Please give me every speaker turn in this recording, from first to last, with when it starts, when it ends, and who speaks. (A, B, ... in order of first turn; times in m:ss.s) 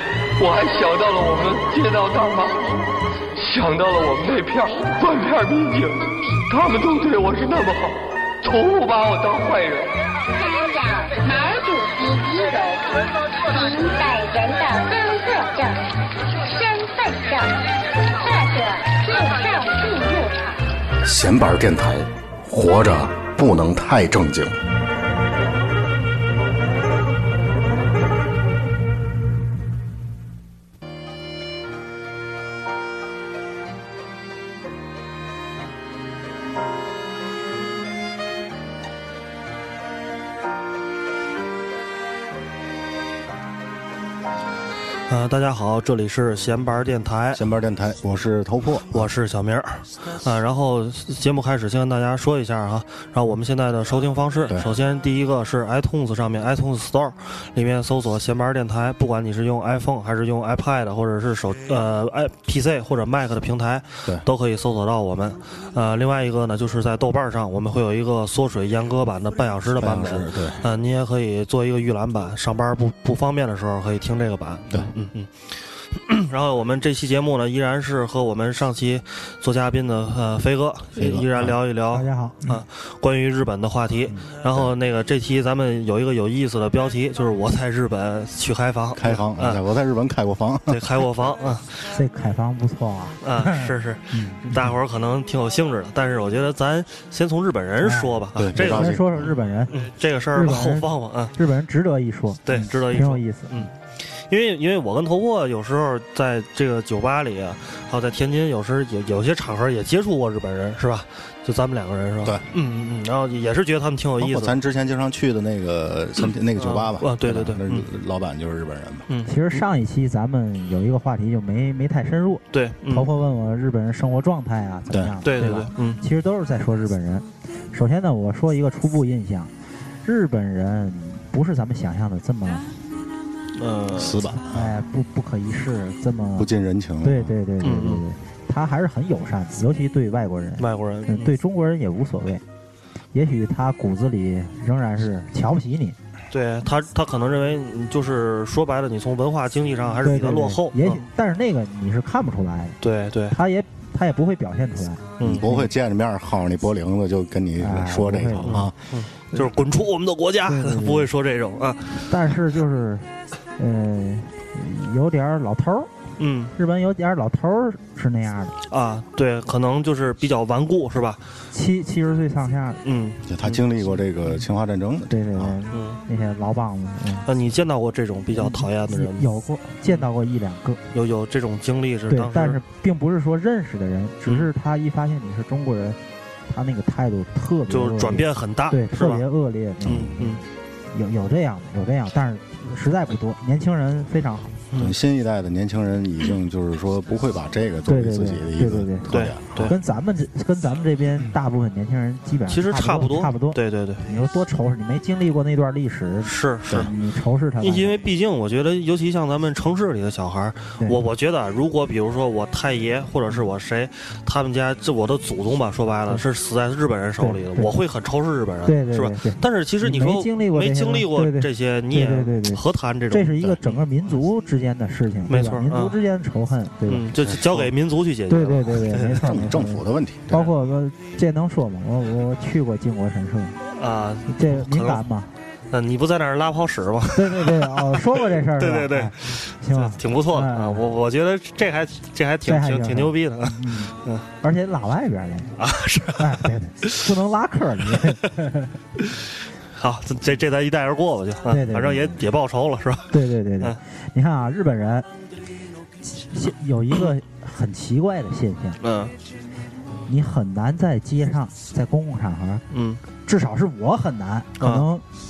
0:00.4-0:02.6 A
0:03.4-0:09.9 A
0:10.3-0:15.8 B
0:16.5-0:17.6 B
0:18.1-0:20.6 B
0:21.0-0:24.6 C
0:45.1-0:47.4 D
0:47.3-0:49.1 C
0:48.9-1:29.6 D
1:09.7-1:10.7 C
1:20.9-1:21.6 C
1:21.9-1:22.6 E
1:24.1-1:24.7 C
1:28.9-1:30.8 C
1:30.7-1:31.8 D
1:31.8-1:34.7 E
1:33.2-1:39.0 D
1:37.8-1:39.7 E
1:38.4-1:39.3 C
1:39.7-1:41.3 D
1:40.3-1:43.6 E
1:42.4-1:54.6 D
1:54.2-1:59.1 C
1:56.6-1:57.8 D
1:59.1-1:59.6 D
1:59.3-2:09.5 E
2:02.5-2:03.1 D
2:05.2-2:06.0 D
2:10.0-2:12.7 E
2:13.6-2:14.2 D
2:13.9-2:14.7 C
2:14.4-2:16.5 E
2:16.4-2:17.3 C
2:17.0-2:22.4 E
2:17.6-2:18.0 D
2:20.6-2:21.3 D
2:23.1-2:26.0 E
2:26.3-2:31.0 D
2:30.0-2:32.8 E
2:32.8-2:33.4 D
2:33.3-2:35.7 E
2:35.2-2:35.5 D
2:35.2-2:38.7 C
2:37.6-2:38.7 E
2:38.4-2:42.1 D
2:40.4-2:41.1 E
2:42.1-2:45.9 E
2:46.2-2:46.5 D
2:46.5-2:48.5 E
2:48.7-2:51.2 D
2:51.5-2:52.8 E
2:52.8-2:53.6 D
2:53.2-2:55.5 C
2:55.1-2:57.3 E
2:55.7-2:56.0 D
2:57.2-2:59.3 D
2:58.3-3:00.8 E
3:00.9-3:02.6 D
3:02.1-3:14.6 E
3:07.7-3:09.2 D
3:09.8-3:10.4 D
3:14.7-3:15.0 D
3:14.7-3:19.7 C
3:17.9-3:19.1 E
3:19.1-3:19.7 D
3:19.6-3:28.0 E
3:22.5-3:24.0 D
3:26.2-3:26.9 D
3:27.6-3:43.8 D
3:37.2-3:37.7 E
3:38.6-3:47.0 E
3:45.3-3:46.0 D
3:46.9-3:49.4 D
3:47.2-3:47.7 C
3:48.3-3:53.6 E
3:49.1-3:50.5 C
3:53.7-3:55.0 D
3:54.3-3:55.3 E
3:55.7-4:04.2 D
3:57.1-4:00.8 E
4:02.4-4:05.6 E
4:05.6-4:07.0 D
4:06.2-4:08.7 E
4:09.8-4:13.8 D
4:11.5-4:12.2 E
4:13.1-4:15.1 E
4:16.0-4:18.8 E
4:18.8-4:19.1 D
4:20.1-4:22.6 E
4:22.7-4:23.0 D
4:23.2-4:25.0 E
4:24.6-4:24.8 D